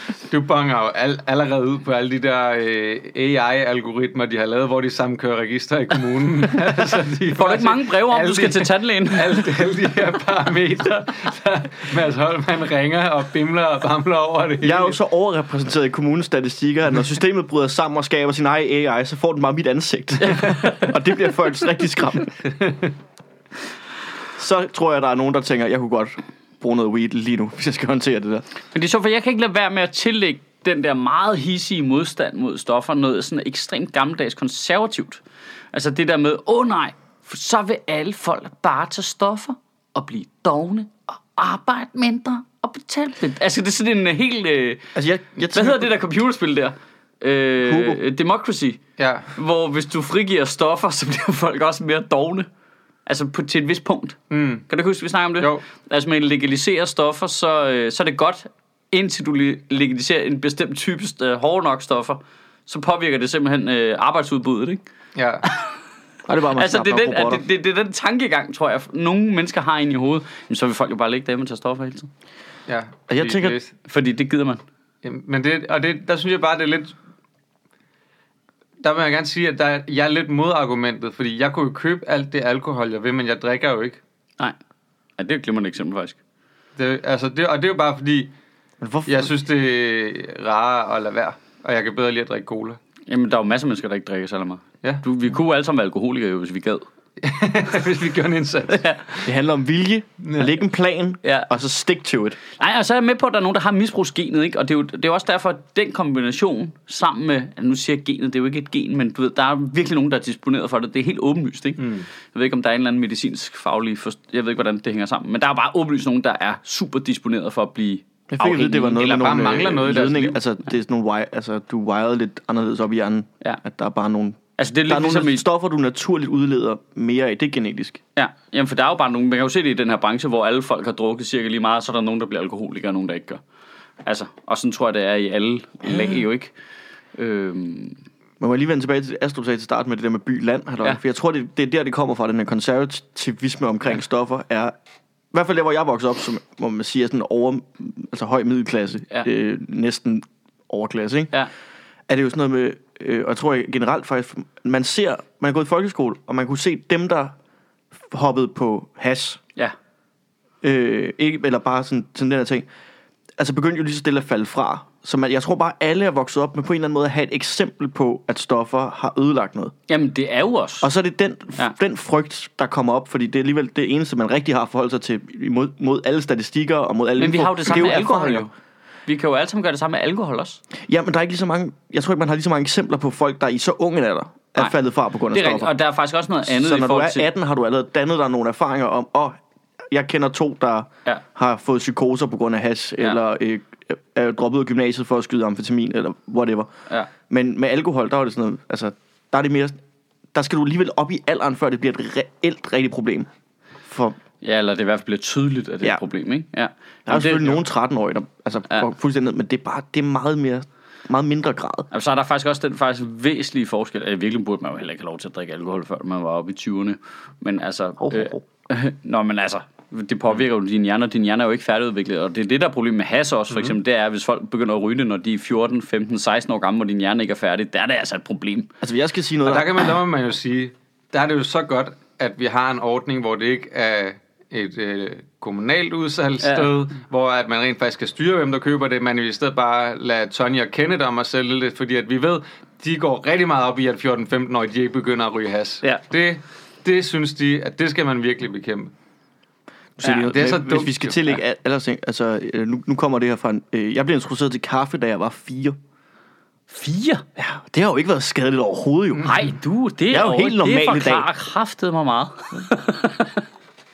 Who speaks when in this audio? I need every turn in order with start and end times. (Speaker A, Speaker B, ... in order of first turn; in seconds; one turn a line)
Speaker A: 0.3-15.0
Speaker B: 7.3-9.5
Speaker C: 14.6-22.3
Speaker B: 20.2-20.9
Speaker C: 24.4-28.4
Speaker B: 28.7-35.2
Speaker B: 35.7-44.8
Speaker C: 45.0-45.9
Speaker B: 45.5-48.8
Speaker C: 47.6-48.0
Speaker A: 49.0-49.3
Speaker B: 49.4-52.5
Speaker B: 53.1-54.2
Speaker A: 54.3-54.7
Speaker B: 54.7-64.8
Speaker A: 55.4-55.6
Speaker A: 65.2-65.5
Speaker C: 66.3-67.4
Speaker B: 66.5-72.1
Speaker A: 72.7-73.8
Speaker C: 73.1-73.6
Speaker B: 73.9-74.6
Speaker A: 75.0-77.0
Speaker A: 78.8-84.0
Speaker B: 85.2-86.2
Speaker A: 86.8-88.3
Speaker C: 88.8-89.3
Speaker A: 89.1-92.8
Speaker B: 93.1-96.8
Speaker A: 97.2-99.3
Speaker B: 98.7-99.0
Speaker C: 99.2-102.4
Speaker A: 100.2-100.5
Speaker B: 101.2-101.5
Speaker B: 102.6-119.1
Speaker A: 111.8-112.1
Speaker C: 118.3-128.0
Speaker A: 118.9-120.4
Speaker B: 124.6-125.5
Speaker B: 128.2-133.4
Speaker B: 134.0-136.5
Speaker C: 135.9-136.2
Speaker B: 137.2-138.0
Speaker C: 138.4-144.7
Speaker C: 145.3-151.3
Speaker C: 152.1-157.3
Speaker C: 157.9-159.4
Speaker C: 160.6-162.7
Speaker C: 163.4-169.7
Speaker B: 169.9-170.9
Speaker C: 170.8-178.5
Speaker B: 177.2-178.5
Speaker B: 179.1-180.6
Speaker C: 180.8-185.7
Speaker B: 185.3-187.3
Speaker C: 186.4-196.7
Speaker C: 197.3-199.8
Speaker C: 200.3-203.3
Speaker C: 203.8-204.2
Speaker B: 204.4-207.6
Speaker C: 207.1-211.9
Speaker B: 211.9-228.7
Speaker C: 218.0-218.4
Speaker C: 228.8-229.9
Speaker A: 229.4-248.9
Speaker B: 236.4-236.7
Speaker C: 250.0-255.8
Speaker B: 250.0-250.3
Speaker A: 250.3-251.3
Speaker B: 256.7-257.2
Speaker C: 257.4-259.5
Speaker B: 259.2-263.4
Speaker C: 260.1-261.3